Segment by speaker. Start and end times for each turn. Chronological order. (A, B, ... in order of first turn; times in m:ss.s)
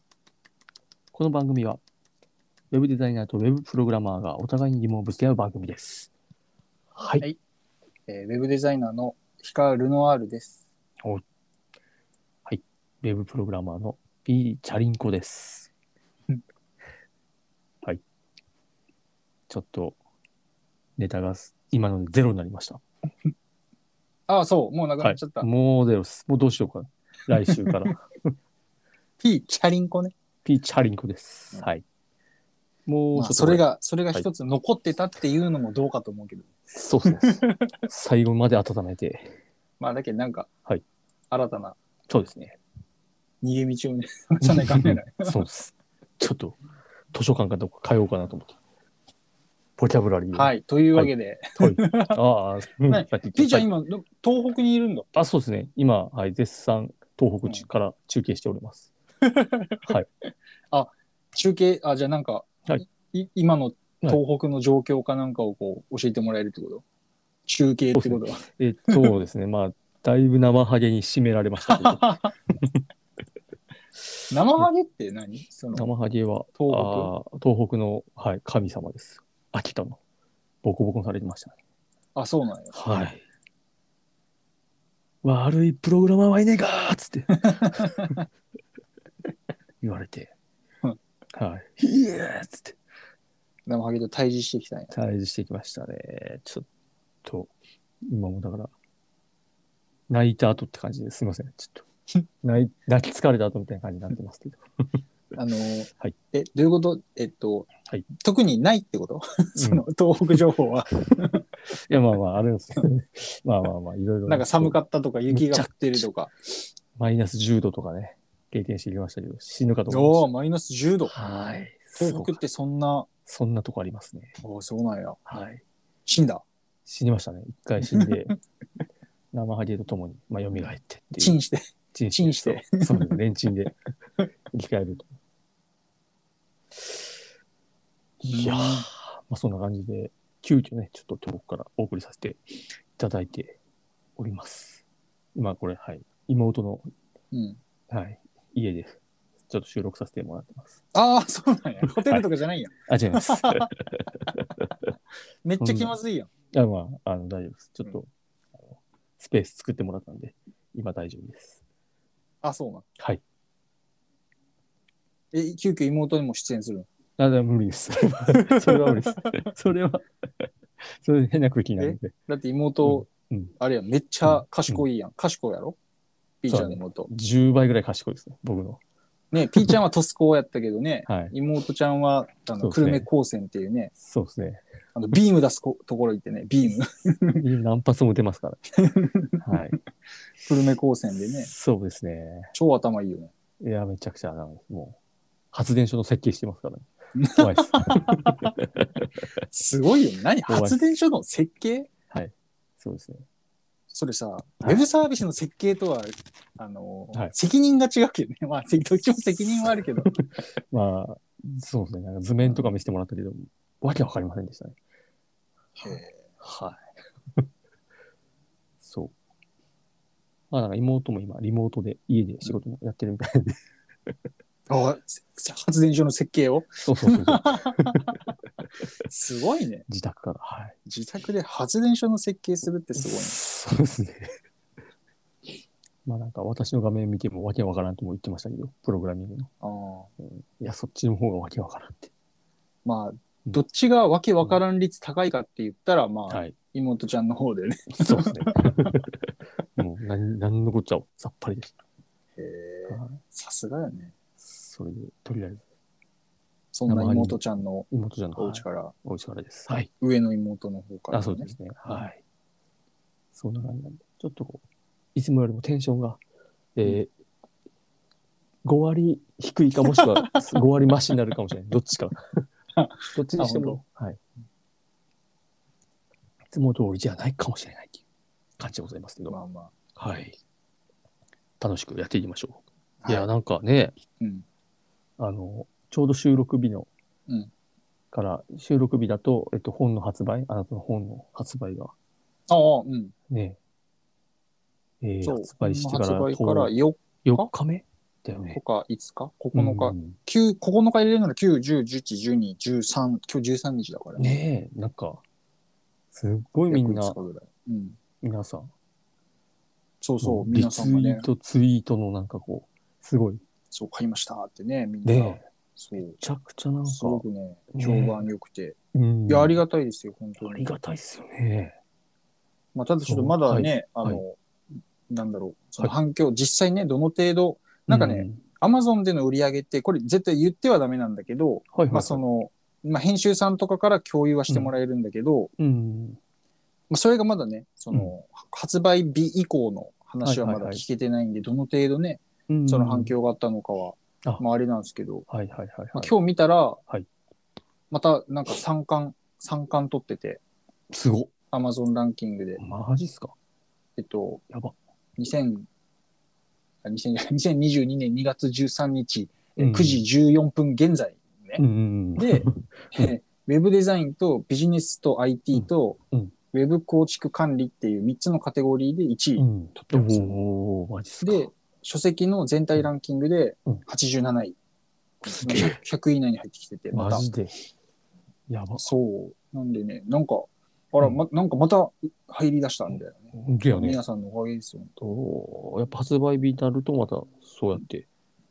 0:01.1-0:01.8 A
0:02.7-0:06.1 A
0:06.9-0:07.3 A
0:08.1-0:10.6 B
0:12.4-0:15.7 A
0:19.5-0:20.0 A
0:21.0-0:22.8 A
0:24.3-0:25.5 B
0:25.0-0:28.3 A
0:27.5-0:27.8 B
0:29.2-0:30.1 B
0:30.4-0:31.8 A
0:32.8-0:34.2 A
0:33.1-0:36.5 B
0:36.7-0:39.3 A
0:37.0-0:37.7 B
0:39.8-0:40.5 B
0:41.3-0:41.8 B
0:42.1-0:42.6 A
0:43.4-0:45.4 B
0:44.4-0:46.6 A
0:47.1-0:48.6 A
0:49.8-0:53.7 A
0:50.3-0:52.2 B
0:52.9-0:55.2 B
0:55.1-0:58.9 A
0:59.2-1:00.0 B
1:00.7-1:06.8 B
1:07.4-1:09.1 B
1:07.9-1:12.8 A
1:11.7-1:12.3 B
1:14.3-1:15.9 B
1:15.7-1:20.0 A
1:16.6-1:17.1 B
1:20.6-1:21.6 A
1:22.1-1:22.7 B
1:22.7-1:23.2 A
1:25.2-1:28.2 A
1:29.8-1:30.3 A
1:31.3-1:32.8 A
1:33.6-1:34.9 B
1:34.9-1:36.6 A
1:37.2-1:37.5 A
1:38.0-1:38.7 A
1:40.1-1:41.8 A
1:42.4-1:45.0 A
1:45.4-1:51.4 B
1:49.6-1:49.8 A
1:51.2-1:54.8 A
1:54.3-1:56.7 B
1:55.3-1:56.0 A
1:57.0-2:00.2 A
1:59.9-2:01.1 B
2:01.1-2:02.4 A
2:02.0-2:03.1 B
2:03.2-2:04.4 A
2:04.4-2:05.2 B
2:05.3-2:05.6 A
2:06.0-2:06.4 B
2:06.8-2:08.4 A
2:07.8-2:08.3 B
2:09.3-2:11.3 A
2:11.1-2:13.2 B
2:11.9-2:13.8 A
2:14.5-2:15.1 A
2:18.2-2:22.4 A
2:18.2-2:18.9 B
2:22.9-2:23.6 A
2:24.2-2:24.8 A
2:25.3-2:26.9 A
2:27.3-2:27.6 B
2:27.9-2:30.8 A
2:30.9-2:33.7 B
2:32.0-2:32.2 A
2:32.9-2:34.9 A
2:35.4-2:36.3 B
2:35.6-2:36.0 A
2:36.5-2:38.1 A
2:38.7-2:41.6 A
2:42.4-2:42.9 B
2:45.3-2:46.9 B
2:47.2-2:52.1 A
2:48.2-2:49.4 B
2:51.8-2:55.8 B
2:52.8-2:53.5 A
2:54.3-2:54.8 A
2:56.4-2:57.1 B
2:56.5-2:58.8 A
2:59.3-3:03.9 B
3:01.1-3:01.3 A
3:02.6-3:03.1 A
3:04.0-3:04.6 A
3:04.9-3:07.4 B
3:07.3-3:08.6 A
3:08.8-3:09.4 B
3:09.4-3:09.8 A
3:10.4-3:11.5 B
3:11.3-3:12.5 A
3:12.5-3:13.3 B
3:13.6-3:15.0 A
3:15.5-3:19.2 A
3:17.2-3:18.5 B
3:19.5-3:21.9 B
3:20.5-3:20.8 A
3:22.1-3:23.2 A
3:23.9-3:30.1 B
3:24.6-3:24.9 A
3:29.7-3:34.8 A
3:32.4-3:32.7 B
3:35.8-3:36.2 B
3:35.8-3:36.8 A
3:38.8-3:39.1 A
3:40.5-3:44.1 A
3:44.7-3:48.2 B
3:46.8-3:48.2 A
3:49.1-3:49.8 B
3:49.9-3:50.8 A
3:50.8-3:53.4 B
3:53.0-3:54.3 A
3:56.0-3:59.5 A
3:59.6-4:00.1 B
4:00.2-4:02.1 A
4:02.8-4:09.0 B
4:06.3-4:06.6 A
4:07.9-4:11.7 A
4:12.4-4:14.1 B
4:12.9-4:13.2 A
4:14.4-4:15.6 A
4:16.7-4:18.9 B
4:16.9-4:19.9 A
4:19.7-4:22.0 B
4:21.1-4:22.2 A
4:23.3-4:24.6 A
4:25.1-4:26.2 A
4:26.8-4:27.1 A
4:28.6-4:32.4 A
4:32.8-4:33.8 B
4:33.1-4:34.2 A
4:36.5-4:38.0 A
4:38.6-4:39.4 A
4:39.3-4:39.7 B
4:40.0-4:40.4 A
4:41.6-4:44.0 A
4:43.0-4:43.3 B
4:44.2-4:44.4 B
4:45.2-4:46.9 A
4:48.1-4:51.9 A
4:52.5-4:53.1 B
4:53.3-4:53.6 A
4:55.0-4:56.7 A
4:55.2-4:57.5 B
4:57.2-4:58.6 A
4:58.5-5:04.3 B
4:59.5-5:00.2 A
5:04.2-5:05.2 A
5:06.1-5:07.2 A
5:06.7-5:08.0 B
5:08.2-5:08.7 A
5:10.0-5:11.2 B
5:10.2-5:13.4 A
5:13.7-5:16.2 B
5:15.0-5:15.4 A
5:16.0-5:18.3 A
5:16.9-5:18.8 B
5:18.9-5:19.6 A
5:19.3-5:20.7 B
5:20.4-5:21.8 A
5:22.7-5:24.4 B
5:23.0-5:24.2 A
5:25.1-5:35.5 B
5:27.9-5:28.4 A
5:31.7-5:32.2 A
5:35.6-5:36.2 A
5:36.9-5:45.2 B
5:40.2-5:40.8 A
5:42.5-5:43.1 A
5:45.3-5:46.1 A
5:45.9-5:46.8 B
5:47.9-5:50.4 B
5:50.9-5:51.3 A
5:51.5-5:52.6 B
5:52.6-5:53.3 A
5:54.0-5:54.4 B
5:54.5-5:54.7 A
5:55.2-5:55.7 B
5:56.8-6:01.6 B
5:59.6-6:00.0 A
6:01.6-6:03.1 A
6:02.2-6:06.0 B
6:05.5-6:06.3 A
6:06.5-6:10.4 B
6:09.4-6:11.5 A
6:11.2-6:14.6 B
6:15.2-6:17.2 B
6:15.3-6:15.8 A
6:16.9-6:17.5 A
6:18.5-6:18.9 A
6:18.8-6:25.0 B
6:23.3-6:24.0 A
6:25.0-6:28.1 A